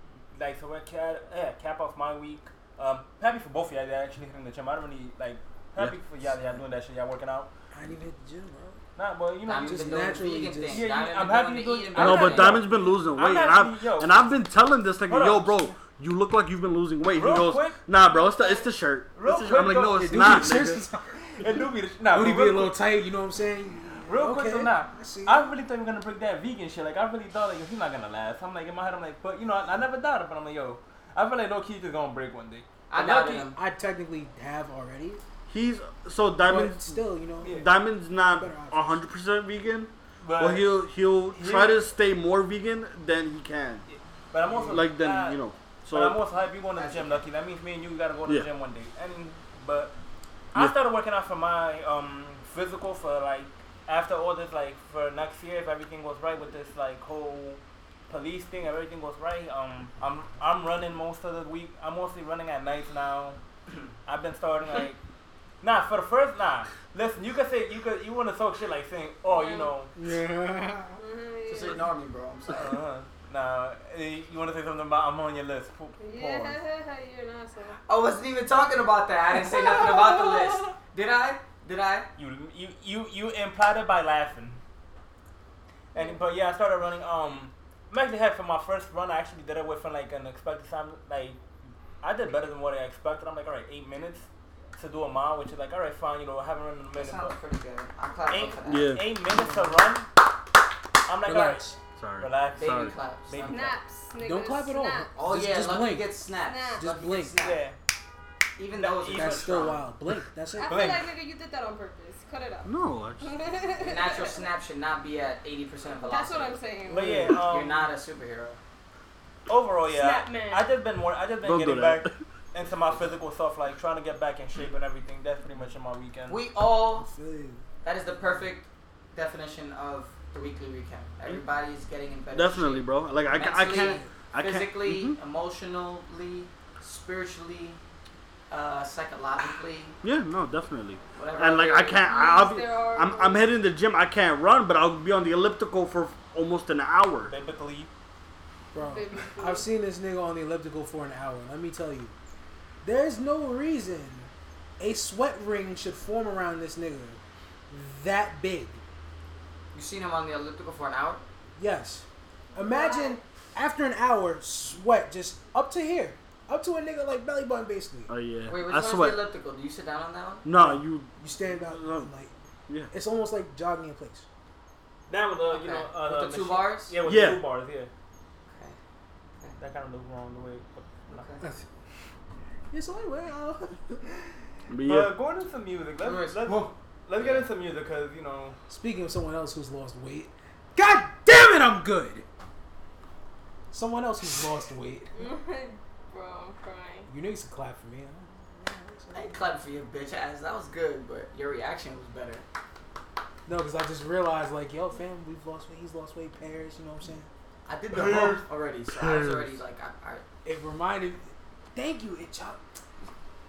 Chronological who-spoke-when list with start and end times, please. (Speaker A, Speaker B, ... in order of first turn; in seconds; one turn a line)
Speaker A: 0.3-7.5
Speaker B: 7.7-8.8
Speaker A: 9.0-14.3
Speaker C: 9.4-12.6
Speaker B: 9.6-10.9
Speaker D: 12.0-20.8
Speaker A: 15.1-15.6
Speaker A: 17.1-17.8
Speaker E: 18.2-18.7
Speaker A: 19.1-20.6
Speaker B: 20.0-21.2
Speaker A: 21.3-22.7
Speaker B: 22.1-25.5
Speaker A: 24.1-33.4
Speaker C: 32.9-33.6
Speaker B: 33.3-35.2
Speaker D: 35.5-43.9
Speaker B: 36.5-37.7
Speaker B: 38.2-39.0
Speaker A: 40.2-40.8
Speaker A: 41.4-41.9
Speaker A: 43.9-49.9
Speaker D: 44.7-46.2
Speaker C: 46.8-47.2
Speaker A: 50.5-63.4
Speaker A: 64.1-65.0
Speaker A: 65.6-69.9
Speaker E: 69.3-69.7
Speaker B: 70.0-71.0
Speaker E: 71.0-71.8
Speaker C: 71.5-72.8
Speaker A: 72.5-76.6
Speaker E: 76.0-77.8
Speaker C: 77.9-82.1
Speaker A: 82.2-84.6
Speaker E: 85.9-86.2
Speaker A: 86.0-91.4
Speaker A: 92.0-97.4
Speaker C: 96.9-99.0
Speaker A: 98.3-100.1
Speaker D: 98.7-99.1
Speaker B: 99.3-99.8
Speaker A: 101.1-103.7
Speaker B: 101.2-101.8
Speaker D: 102.0-103.0
Speaker C: 102.5-103.8
Speaker E: 103.5-105.1
Speaker B: 104.2-106.1
Speaker C: 105.2-107.6
Speaker E: 106.4-106.9
Speaker B: 106.8-107.4
Speaker A: 107.4-107.8
Speaker C: 108.6-109.8
Speaker A: 108.7-109.8
Speaker B: 109.1-110.9
Speaker E: 110.5-114.4
Speaker A: 110.7-111.1
Speaker D: 112.7-113.3
Speaker C: 113.8-118.6
Speaker E: 116.0-117.1
Speaker A: 116.9-117.9
Speaker B: 117.0-117.3
Speaker A: 119.5-126.4
Speaker E: 119.9-120.7
Speaker D: 121.4-122.1
Speaker C: 126.3-127.1
Speaker B: 126.9-127.6
Speaker C: 127.8-137.8
Speaker D: 132.3-135.2
Speaker B: 133.6-134.1
Speaker C: 138.5-140.0
Speaker D: 140.0-147.3
Speaker C: 141.2-142.0
Speaker E: 142.0-143.5
Speaker A: 147.2-147.9
Speaker B: 148.7-152.2
Speaker E: 148.8-149.7
Speaker B: 152.8-158.8
Speaker C: 159.7-161.2
Speaker B: 161.6-168.1
Speaker E: 162.5-163.2
Speaker D: 168.1-169.2
Speaker C: 168.5-170.5
Speaker D: 170.4-172.1
Speaker B: 170.6-172.3
Speaker B: 172.9-174.3
Speaker A: 175.1-177.9
Speaker C: 175.5-177.0
Speaker D: 177.0-177.4
Speaker C: 178.5-178.8
Speaker A: 179.6-181.3
Speaker C: 181.1-181.4
Speaker B: 182.7-184.1
Speaker D: 184.7-185.2
Speaker A: 184.8-188.6
Speaker C: 186.0-187.5
Speaker B: 188.7-192.3
Speaker B: 193.7-195.1
Speaker E: 195.2-197.1
Speaker B: 197.1-199.6
Speaker C: 199.1-202.4
Speaker B: 203.5-207.3
Speaker C: 207.7-210.2
Speaker D: 207.9-208.4
Speaker D: 209.0-209.4
Speaker B: 210.4-212.6